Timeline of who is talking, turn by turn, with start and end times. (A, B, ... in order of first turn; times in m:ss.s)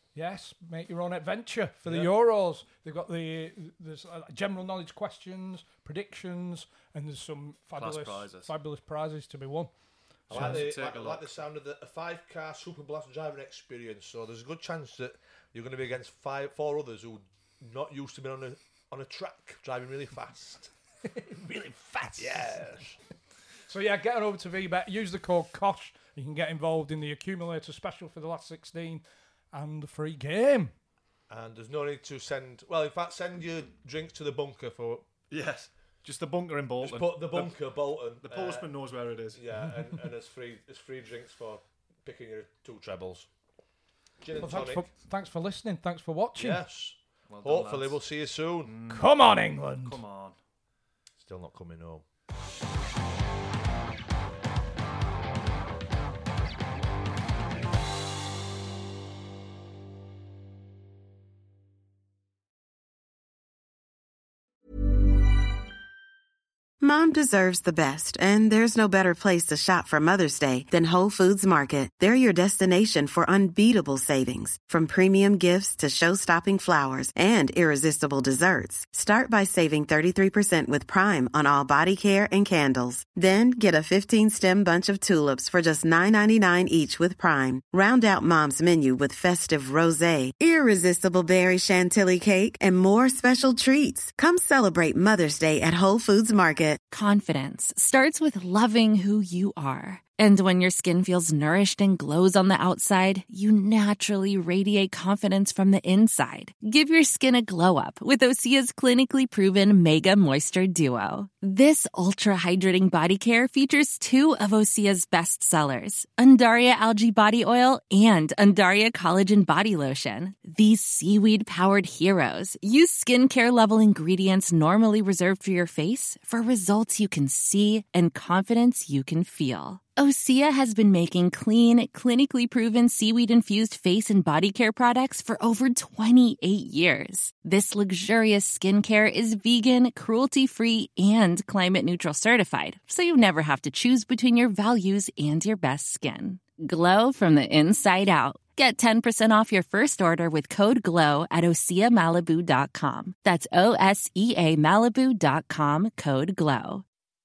0:00.2-0:09.7 A
0:01.8-0:02.1 B
0:07.8-0:08.5 C
0:10.3-0:10.6 A
0:10.3-0:11.3 C
0:10.3-0:20.7 B
0:21.0-0:22.5 A
0:22.2-0:23.0 B
0:23.7-0:30.7 A
0:31.3-0:35.0 B
0:35.3-0:37.6 C
0:36.8-0:38.7 B
0:38.2-0:39.4 C
0:39.3-0:43.3 B
0:44.2-0:44.9 B
0:44.4-0:46.6 A
0:46.4-0:48.7 B
0:47.3-0:49.1 C
0:48.9-0:50.0 A
0:49.7-0:50.4 C
0:51.2-0:52.0 B
1:06.8-1:36.8 D
1:36.9-2:36.8 E